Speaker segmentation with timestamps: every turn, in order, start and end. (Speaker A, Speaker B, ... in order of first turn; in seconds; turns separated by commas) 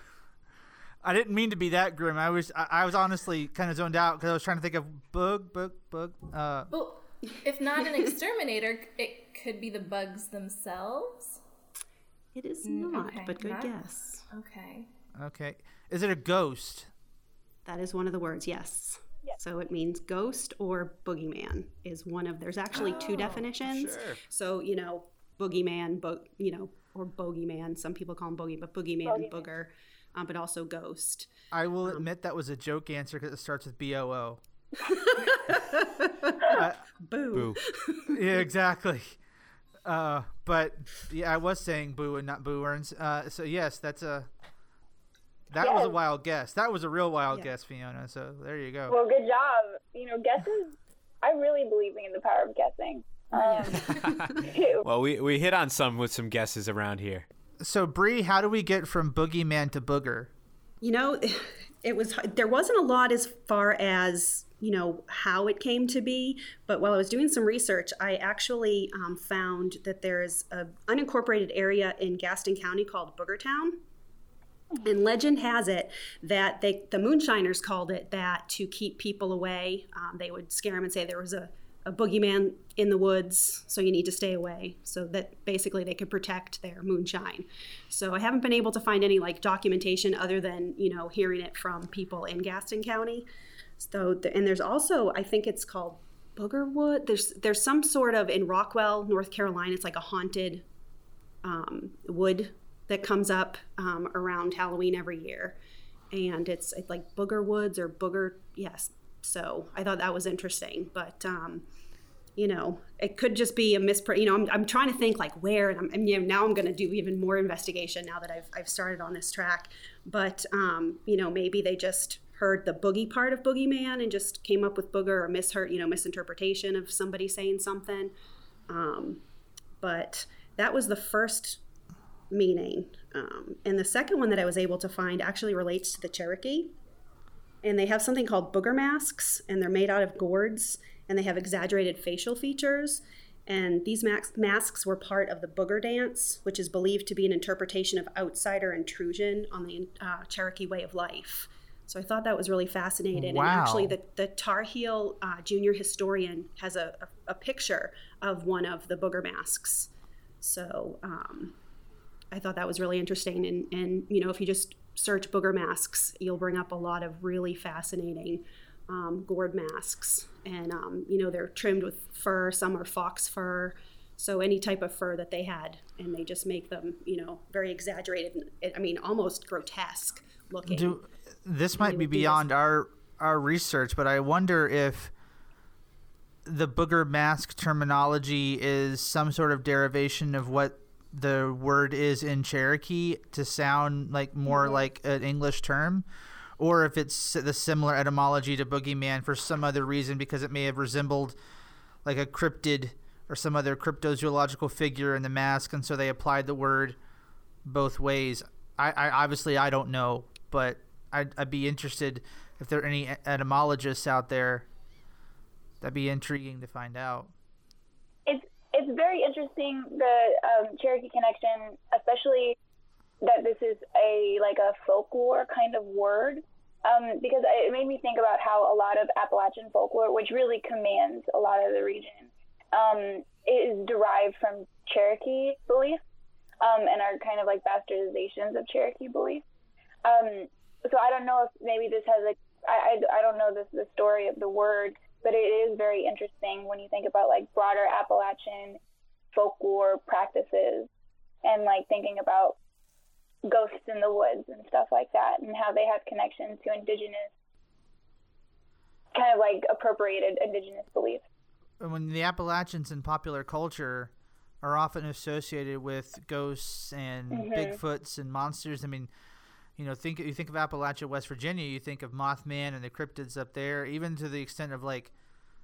Speaker A: 1.0-6.7, Speaker B: 6.7-11.4, Speaker C: 12.3-14.3, Speaker B: 12.6-14.9, Speaker A: 15.2-16.9, Speaker C: 17.6-31.3, Speaker D: 22.7-24.2, Speaker E: 29.0-29.5, Speaker A: 31.5-34.4, Speaker C: 34.8-38.3, Speaker A: 36.5-36.9, Speaker A: 38.1-39.2, Speaker A: 39.8-44.3, Speaker A: 45.5-49.0, Speaker E: 45.6-46.0, Speaker E: 48.9-53.8, Speaker C: 53.4-54.5, Speaker D: 53.9-57.3, Speaker E: 54.4-54.9, Speaker A: 57.6-60.3, Speaker C: 60.8-73.8, Speaker C: 74.8-93.3, Speaker C: 93.8-100.6, Speaker C: 101.4-105.6, Speaker C: 106.1-111.7, Speaker C: 112.4-128.1, Speaker C: 128.7-129.2, Speaker C: 129.8-131.6, Speaker C: 132.3-136.8, Speaker C: 137.6-161.6, Speaker A: 153.1-154.0, Speaker C: 162.3-181.0, Speaker A: 180.7-185.1, Speaker C: 181.8-182.5, Speaker A: 186.5-196.1, Speaker A: 196.6-201.4, Speaker A: 202.1-207.0, Speaker A: 207.7-214.7, Speaker A: 215.8-217.3, Speaker E: 218.3-222.6, Speaker E: 223.2-236.0, Speaker E: 236.6-239.4, Speaker E: 240.0-248.8, Speaker E: 249.3-250.9, Speaker E: 251.4-252.6, Speaker E: 253.4-257.3, Speaker E: 259.1-261.2, Speaker A: 261.8-269.1, Speaker E: 267.3-267.8, Speaker A: 269.8-275.1